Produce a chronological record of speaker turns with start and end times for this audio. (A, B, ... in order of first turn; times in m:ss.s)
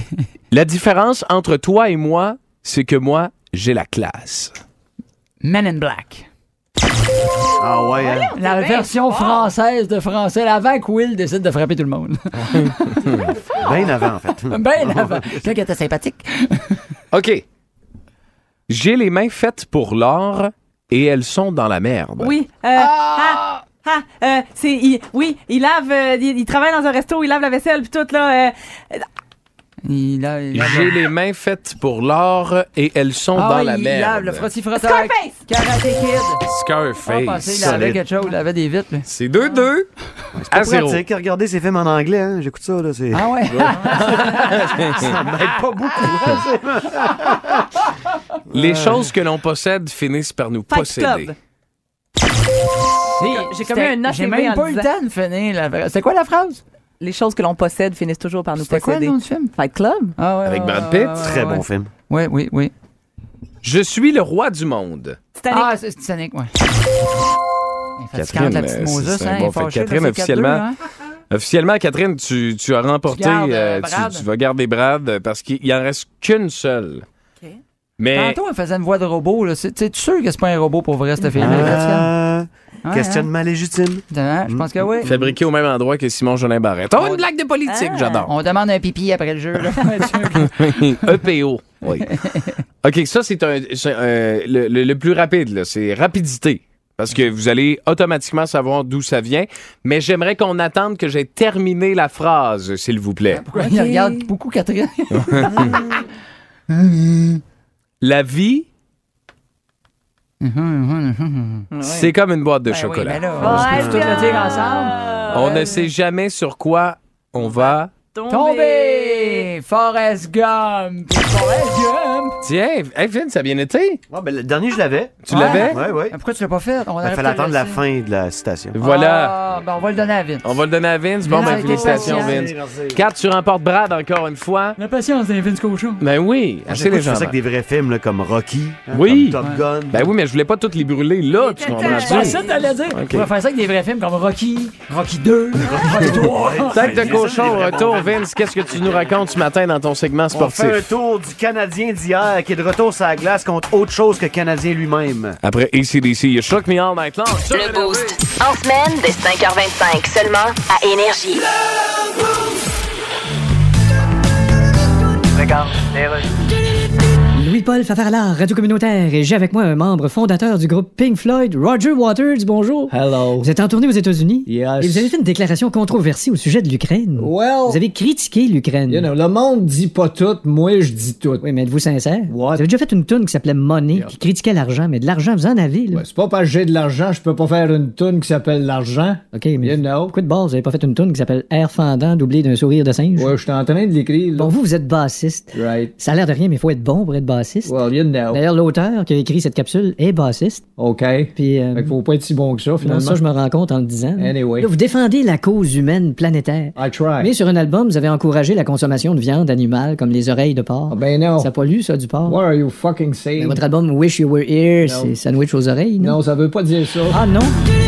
0:00.5-0:04.6 A
0:05.4-0:06.3 B
0:07.6-0:08.3 C
0:07.9-0:09.5 D
0:08.4-0:13.3 B
0:12.5-0:13.3 A
0:13.5-0:15.5 C
0:14.5-0:16.8 B
0:17.1-0:17.4 A
0:18.7-0:23.5 A
0:22.2-0:29.0 D
0:29.8-0:30.9 B
0:30.5-0:34.5 A
0:33.4-0:36.4 B
0:34.8-0:35.4 D
0:36.4-0:38.0 A
0:37.0-0:39.1 B
0:39.0-0:39.9 A
0:40.4-0:43.3 C
0:40.5-0:41.0 A
0:43.1-0:45.3 B
0:43.5-0:45.2 A
0:45.0-0:47.7 C
0:46.0-0:46.4 B
0:48.5-0:51.3 A
0:48.5-0:49.0 C
0:50.7-0:51.3 D
0:53.2-0:56.6 B
0:53.2-0:54.9 D
0:57.0-1:00.1 D
0:58.6-0:59.5 B
1:00.2-1:02.7 B
1:00.4-1:01.2 A
1:01.2-1:01.9 C
1:03.6-1:05.2 A
1:05.4-1:05.7 D
1:05.5-1:06.5 B
1:08.0-1:10.8 B
1:08.1-1:10.7 A
1:11.3-1:17.0 A
1:13.1-1:14.2 B
1:18.0-1:18.4 A
1:18.1-1:22.1 B
1:21.4-1:25.2 C
1:21.4-1:21.7 A
1:22.8-1:23.3 B
1:24.1-1:25.1 B
1:25.0-1:28.3 A
1:27.6-1:28.3 D
1:28.3-1:31.1 B
1:30.4-1:32.1 A
1:31.9-1:32.6 B
1:32.8-1:43.4 A
1:43.3-1:46.0 B
1:43.5-1:44.3 D
1:45.1-1:45.8 A
1:45.5-1:45.8 D
1:46.7-1:47.4 B
1:48.0-1:48.7 A
1:50.4-1:51.7 B
1:51.7-1:52.1 D
1:51.8-1:53.8 A
1:52.7-1:55.0 B
1:53.3-1:55.9 D
1:53.6-1:54.0 C
1:55.3-1:57.9 A
1:57.4-1:59.5 D
1:58.3-2:02.4 B
2:02.4-2:04.0 A
2:04.1-2:06.2 C
2:05.2-2:05.8 A
2:05.3-2:07.8 B
2:07.0-2:08.8 C
2:08.7-2:09.4 A
2:08.8-2:10.5 B
2:10.4-2:14.8 A
2:11.2-2:12.4 B
2:11.4-2:12.3 D
2:11.9-2:13.0 C
2:14.8-2:16.0 B
2:16.0-2:17.4 A
2:16.7-2:20.1 C
2:18.9-2:19.4 A
2:19.9-2:23.3 A
2:21.4-2:22.6 D
2:21.7-2:27.6 B
2:25.6-2:28.2 C
2:26.7-2:30.9 A
2:30.3-2:35.4 C
2:35.4-2:38.2 A
2:37.5-2:41.4 E
2:45.3-2:46.3 F
2:47.3-2:59.1 G
2:52.9-2:53.5 F
2:54.5-2:55.1 F
2:57.2-2:57.8 F
2:58.9-3:01.4 F
3:01.4-3:06.0 G
3:02.3-3:02.7 F
3:05.9-3:10.1 F
3:09.3-3:13.3 G
3:13.2-3:14.5 F
3:14.3-3:17.8 G
3:15.5-3:15.9 F
3:17.6-3:18.4 F
3:18.3-3:20.6 G
3:20.8-3:23.2 F
3:21.4-3:22.0 G
3:22.8-3:32.4 G
3:24.2-3:24.7 F
3:26.8-3:27.3 F
3:30.9-3:31.5 F
3:32.2-3:33.6 F
3:33.4-3:36.2 G
3:34.8-3:35.1 F
3:36.0-3:37.2 F
3:37.1-3:37.6 G